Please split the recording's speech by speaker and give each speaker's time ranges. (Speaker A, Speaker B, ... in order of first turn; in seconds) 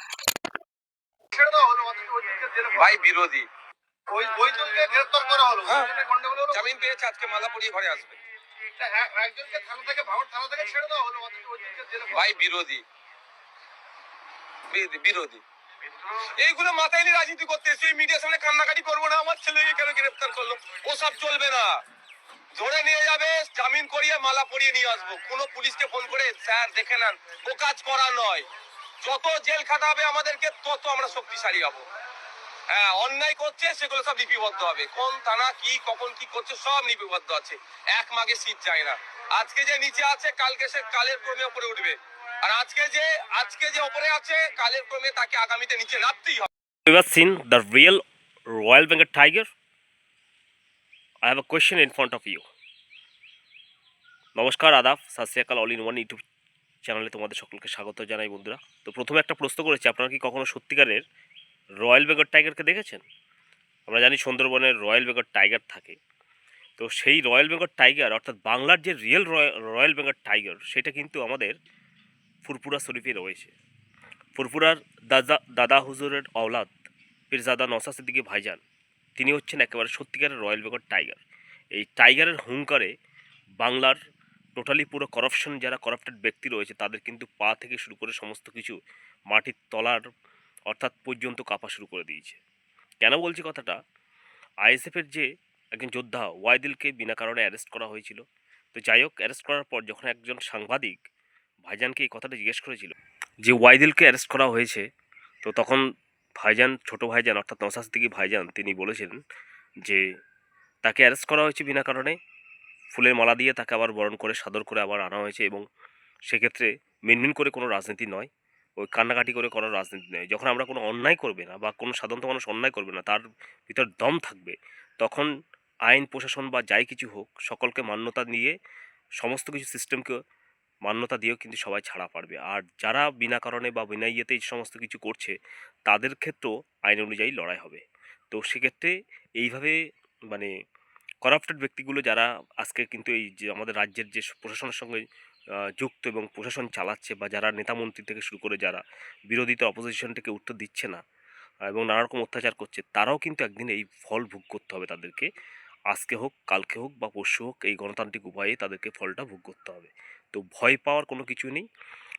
Speaker A: 1.3-2.8, 4.1-6.5, 8.8-12.3
Speaker B: 2.7-3.5, 6.5-8.2, 12.1-12.8, 14.7-15.4, 16.1-21.7, 22.6-28.4, 29.0-31.8, 32.7-46.5
Speaker C: 46.9-48.0, 48.5-49.5, 51.2-52.4, 54.4-56.2, 56.8-61.0, 61.8-63.0, 63.9-66.0, 66.8-71.5, 72.4-73.5, 74.3-76.7, 77.3-78.6, 79.2-81.2, 81.7-82.9, 83.6-84.0, 84.5-88.7, 89.3-90.0, 90.7-92.4, 93.0-93.8, 94.6-98.2, 98.7-101.0, 101.6-104.8, 105.4-105.8, 106.4-109.2, 110.8-112.2, 112.9-115.6, 116.3-125.3, 125.9-128.5, 129.2-130.1, 130.8-135.3, 135.8-139.8, 141.2-145.0, 145.8-151.0, 151.7-155.3, 155.9-161.7